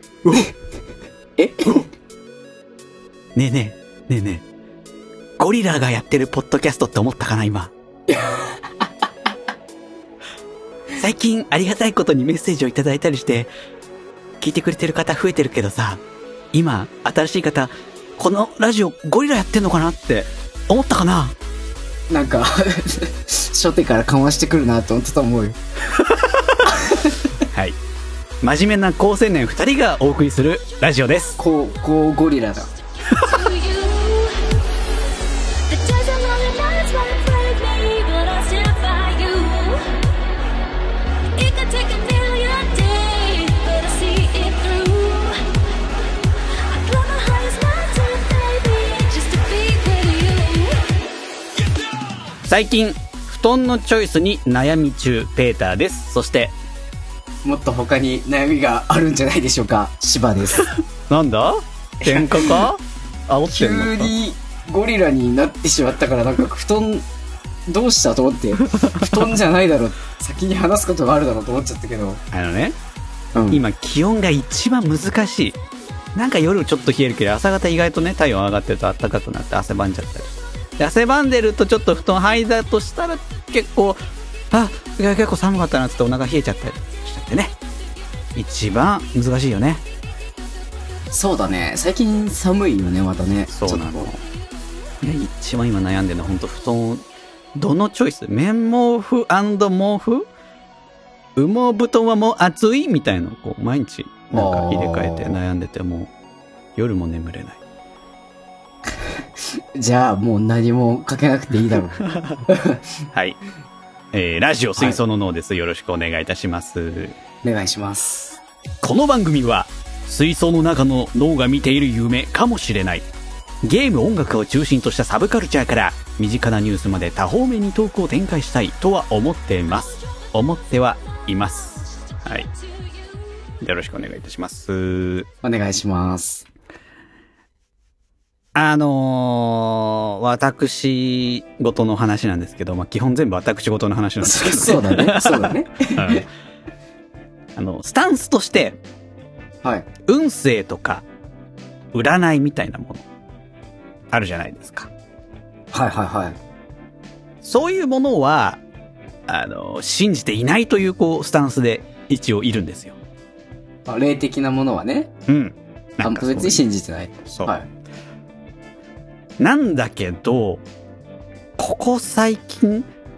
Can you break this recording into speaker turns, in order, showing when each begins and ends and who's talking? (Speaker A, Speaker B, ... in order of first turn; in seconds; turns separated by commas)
Speaker A: 0.2-0.5, Speaker B: 1.4-1.9, Speaker A: 3.3-4.4, Speaker A: 5.4-7.7, Speaker B: 8.1-8.9, Speaker A: 10.9-13.5, Speaker A: 14.4-16.0, Speaker A: 16.5-21.4, Speaker B: 22.1-25.6, Speaker A: 26.0-26.7, Speaker B: 26.7-27.2, Speaker A: 27.5-27.8, Speaker A: 28.4-31.4, Speaker B: 31.4-32.7, Speaker A: 33.1-33.5, Speaker C: 33.2-34.5, Speaker C: 35.7-39.8, Speaker C: 41.4-45.5, Speaker C: 46.6-50.8, Speaker A: 52.4-56.5, Speaker B: 57.4-60.7, Speaker A: 61.1-64.1, Speaker B: 62.0-62.6, Speaker B: 63.5-67.0, Speaker B: 67.7-72.2, Speaker A: 72.3-72.8, Speaker B: 73.3-73.6, Speaker A: 73.5-75.6, Speaker A: 76.1-84.0, Speaker A: 84.5-87.5, Speaker A: 88.3-89.8, Speaker B: 91.1-94.1, Speaker A: 93.5-94.2, Speaker A: 95.0-97.0, Speaker A: 97.5-100.3, Speaker A: 101.3-106.1, Speaker B: 104.3-105.4, Speaker A: 106.8-107.6, Speaker B: 109.1-112.8, Speaker A: 112.0-112.4, Speaker A: 113.1-113.4, Speaker A: 114.1-117.2, Speaker B: 117.4-118.3, Speaker A: 118.8-123.1, Speaker A: 123.6-132.5, Speaker A: 133.6-135.3, Speaker B: 135.4-136.4, Speaker A: 138.5-146.2, Speaker B: 144.2-146.3, Speaker A: 147.6-148.8, Speaker B: 149.6-149.9, Speaker A: 150.0-151.0, Speaker A: 151.9-153.0, Speaker A: 154.1-154.9, Speaker B: 155.7-156.4, Speaker A: 157.4-158.6, Speaker A: 159.3-163.0, Speaker B: 163.9-165.1, Speaker A: 165.3-166.6, Speaker B: 166.0-167.7, Speaker A: 169.4-170.6, Speaker A: 171.6-172.9